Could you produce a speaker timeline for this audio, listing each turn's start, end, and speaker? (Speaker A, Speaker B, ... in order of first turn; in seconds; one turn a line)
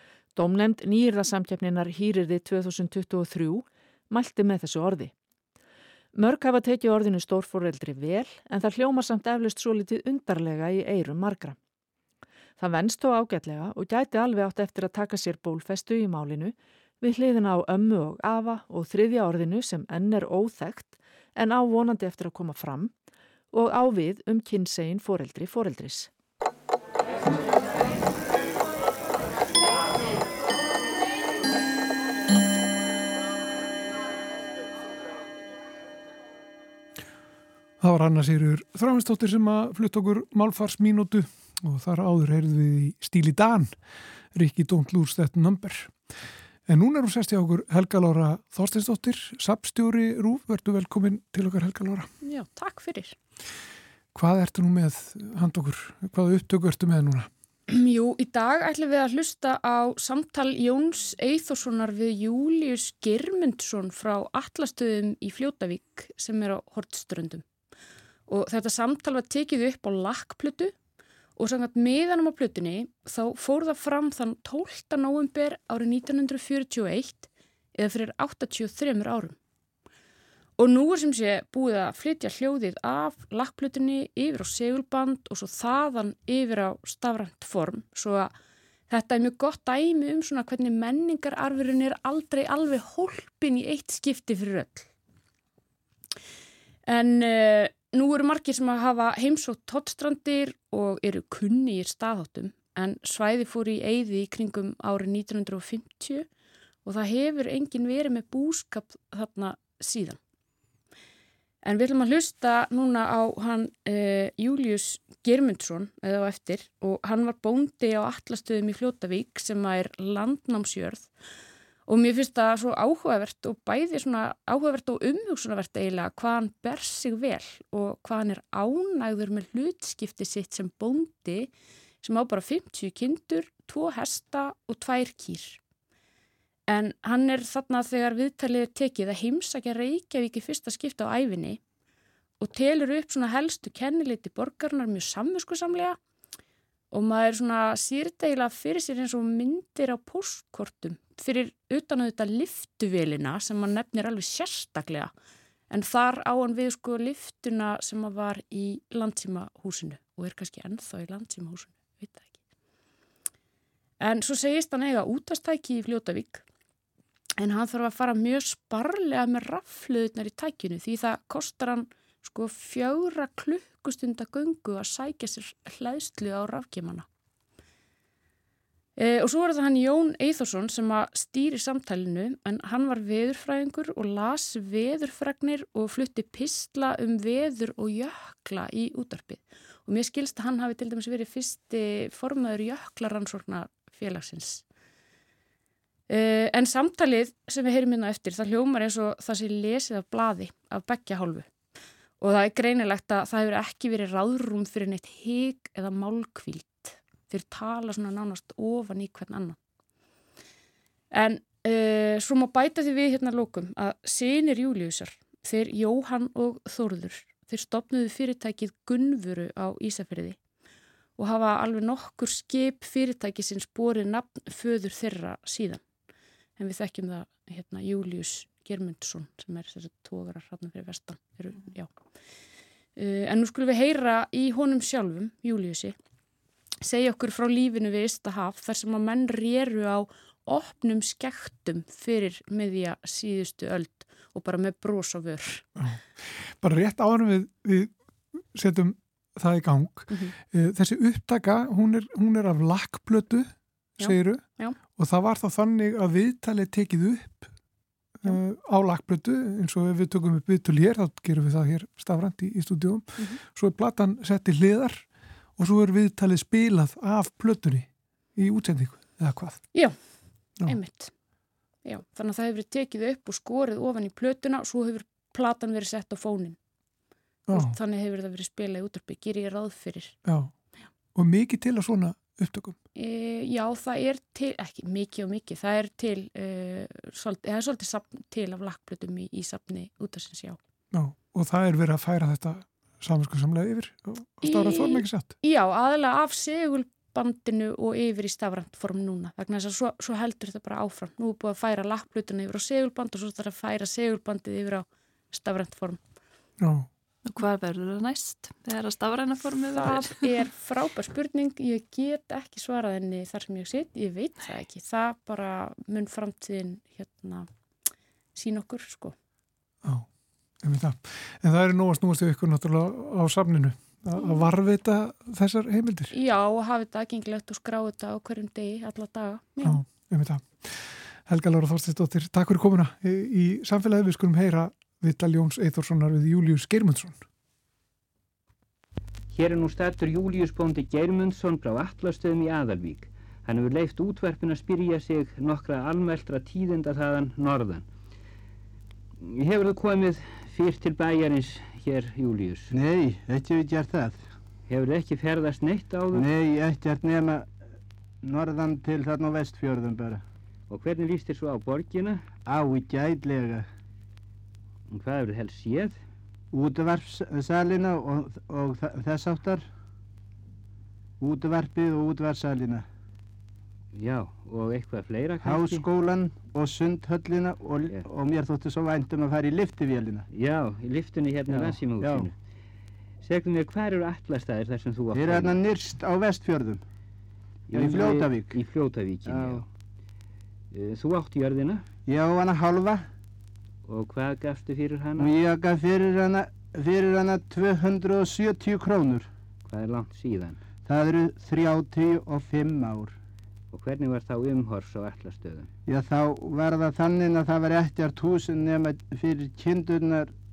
Speaker A: 0.3-5.1
Speaker A: 6.1-11.6
Speaker A: 12.6-22.9
Speaker A: 23.5-26.1
Speaker B: 37.8-46.1
Speaker B: 46.7-52.1
Speaker C: 52.2-53.2
Speaker B: 54.1-57.3
Speaker C: 57.7-67.4
Speaker C: 68.3-70.7
Speaker C: 71.3-79.4
Speaker C: 80.6-88.3
Speaker C: 88.9-94.9
Speaker C: 96.8-106.3
Speaker C: 106.8-110.2
Speaker C: 111.6-121.1
Speaker C: 121.8-131.5
Speaker C: 132.0-135.6
Speaker C: 136.7-141.6
Speaker C: 142.4-146.0
Speaker C: 146.9-155.1
Speaker C: 155.7-162.3
Speaker C: 164.0-166.4
Speaker C: 167.4-177.1
Speaker C: 179.0-194.6
Speaker C: 196.1-201.5
Speaker C: 202.2-209.6
Speaker C: 211.1-220.4
Speaker C: 221.2-225.8
Speaker C: 226.6-231.9
Speaker C: 232.9-236.0
Speaker C: 236.8-245.7
Speaker B: 245.8-257.5
Speaker C: 250.1-250.3
Speaker C: 254.0-254.8
Speaker B: 258.2-269.6
Speaker C: 263.1-263.4
Speaker C: 269.7-270.0
Speaker C: 270.6-271.1
Speaker C: 271.8-276.6
Speaker B: 277.5-277.8
Speaker C: 277.5-280.2
Speaker B: 280.2-280.5
Speaker B: 281.1-282.8
Speaker C: 282.9-290.6
Speaker B: 290.9-295.3
Speaker C: 294.4-306.0
Speaker B: 306.6-306.9
Speaker D: 307.2-310.3
Speaker C: 309.8-317.5
Speaker C: 318.3-319.1
Speaker B: 320.6-326.1
Speaker C: 324.1-324.5
Speaker C: 326.1-329.8
Speaker B: 329.6-337.2
Speaker E: 339.3-347.8
Speaker E: 349.2-352.7
Speaker F: 352.7-354.2
Speaker E: 354.7-356.2
Speaker F: 356.1-357.5
Speaker F: 358.2-360.2
Speaker E: 360.7-362.2
Speaker F: 362.4-363.6
Speaker E: 364.9-365.9
Speaker F: 366.5-369.6
Speaker F: 371.2-372.9
Speaker E: 373.9-375.8
Speaker F: 375.4-380.3
Speaker E: 380.3-382.3
Speaker F: 381.5-382.3
Speaker E: 383.2-385.6
Speaker F: 385.1-386.8
Speaker E: 387.7-389.6
Speaker F: 387.7-388.6
Speaker F: 389.3-389.6
Speaker E: 390.7-391.8
Speaker F: 392.1-393.0
Speaker E: 393.9-395.3
Speaker F: 395.2-399.3
Speaker E: 399.6-400.6
Speaker F: 400.8-403.1
Speaker E: 403.7-405.7
Speaker F: 405.9-410.3